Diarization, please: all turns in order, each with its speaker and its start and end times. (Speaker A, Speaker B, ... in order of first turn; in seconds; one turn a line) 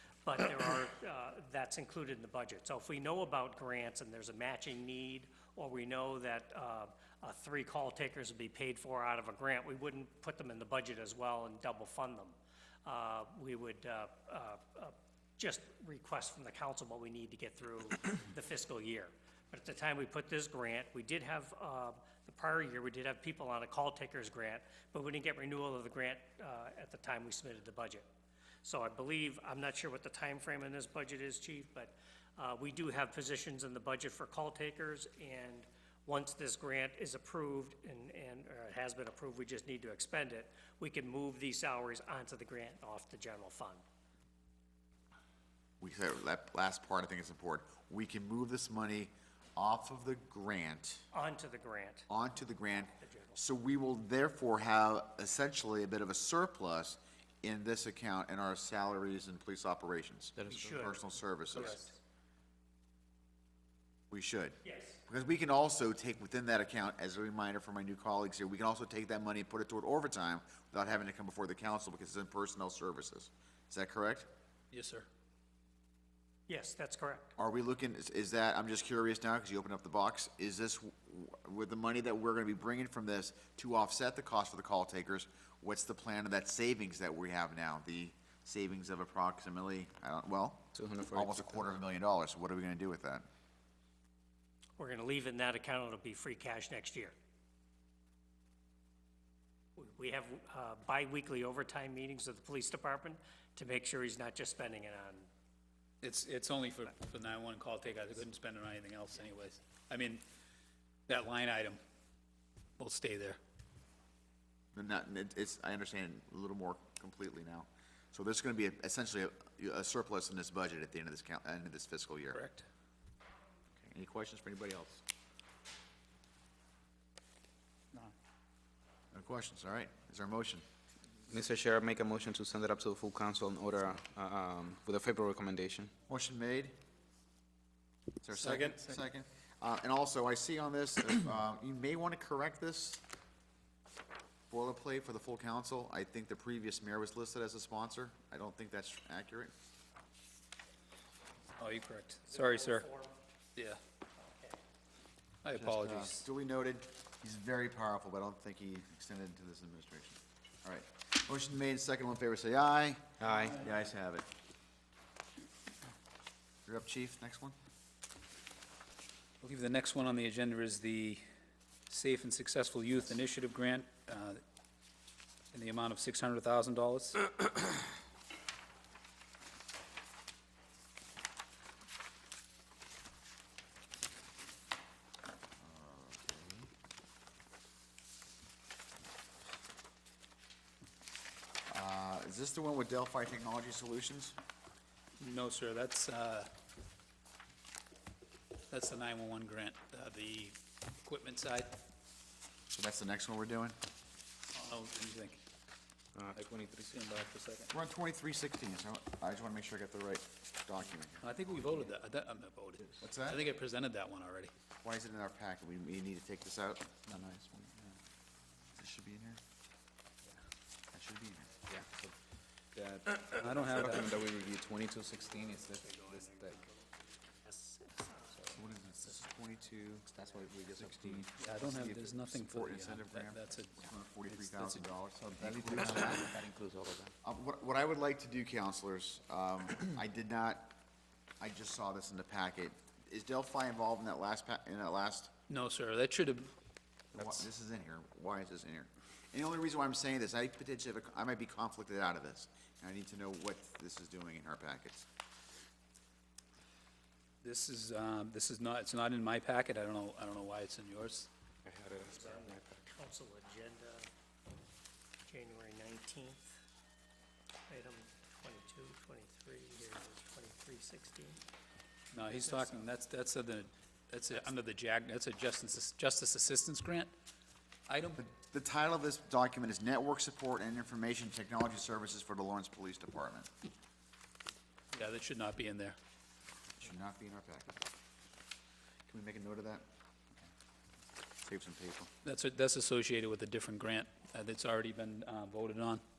Speaker A: 0.2-28.1
Speaker A: 28.6-43.8
Speaker B: 45.8-51.0
Speaker A: 51.1-52.1
Speaker B: 52.1-61.9
Speaker A: 52.9-53.4
Speaker C: 60.4-60.8
Speaker A: 60.5-62.0
Speaker B: 64.1-74.3
Speaker A: 64.6-65.0
Speaker D: 74.7-75.1
Speaker A: 76.5-77.3
Speaker B: 77.4-93.2
Speaker C: 90.7-91.6
Speaker A: 94.8-97.1
Speaker A: 99.8-105.3
Speaker D: 106.0-110.2
Speaker D: 111.1-111.8
Speaker D: 112.8-113.4
Speaker B: 114.7-122.4
Speaker D: 122.3-122.7
Speaker B: 123.8-125.0
Speaker B: 129.1-130.6
Speaker C: 131.3-135.9
Speaker B: 136.1-136.8
Speaker B: 138.2-143.0
Speaker D: 138.3-138.9
Speaker B: 144.5-149.5
Speaker D: 151.6-152.9
Speaker A: 152.3-153.2
Speaker A: 154.2-154.6
Speaker D: 155.4-156.3
Speaker B: 155.5-164.3
Speaker C: 163.2-163.6
Speaker B: 166.7-167.6
Speaker D: 169.4-171.2
Speaker D: 171.9-174.4
Speaker D: 175.5-177.4
Speaker B: 185.6-186.5
Speaker B: 191.7-194.4
Speaker D: 195.2-196.5
Speaker D: 198.7-201.8
Speaker B: 202.7-203.8
Speaker D: 204.5-205.4
Speaker C: 206.1-207.0
Speaker D: 206.3-207.7
Speaker B: 207.7-211.9
Speaker D: 211.2-214.5
Speaker B: 213.0-213.5
Speaker B: 214.8-217.0
Speaker C: 217.1-217.9
Speaker B: 218.8-219.4
Speaker B: 220.9-221.6
Speaker C: 221.7-222.2
Speaker C: 222.7-226.6
Speaker D: 223.3-224.2
Speaker A: 225.5-228.6
Speaker B: 228.5-236.4
Speaker C: 230.1-231.3
Speaker D: 231.4-234.9
Speaker C: 235.3-237.1
Speaker B: 237.2-240.8
Speaker B: 241.4-245.3
Speaker D: 245.5-246.5
Speaker B: 247.1-255.1
Speaker D: 257.4-261.3
Speaker C: 261.6-262.9
Speaker A: 262.1-264.1
Speaker A: 265.2-266.6
Speaker A: 267.7-271.4
Speaker D: 272.1-277.1
Speaker A: 272.2-272.8
Speaker D: 277.9-278.2
Speaker B: 278.2-283.5
Speaker D: 284.9-286.0
Speaker B: 286.8-287.8
Speaker B: 289.1-289.9
Speaker B: 291.4-292.1
Speaker D: 292.2-296.0